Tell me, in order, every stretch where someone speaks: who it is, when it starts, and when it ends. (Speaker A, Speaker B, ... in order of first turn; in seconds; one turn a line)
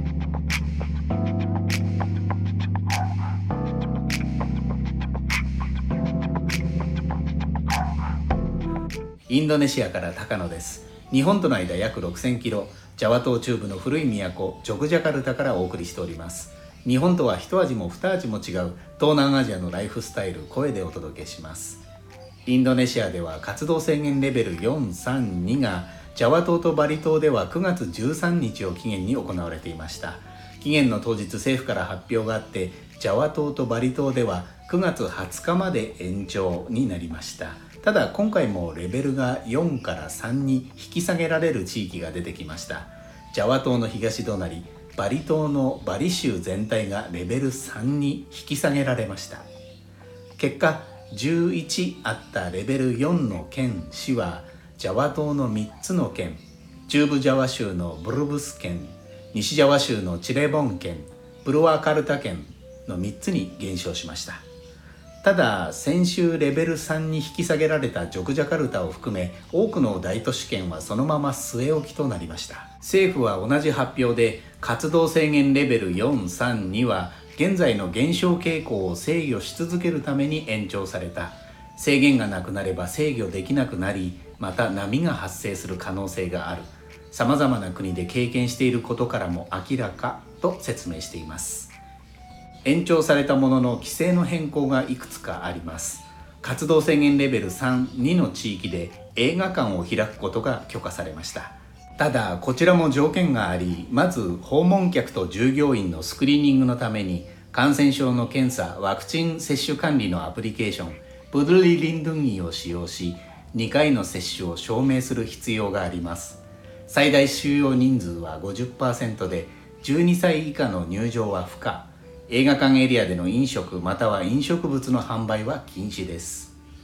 Speaker A: 9.3-21.8
Speaker A: 22.5-49.5
Speaker A: 50.4-64.4
Speaker A: 65.2-91.7
Speaker A: 92.7-126.5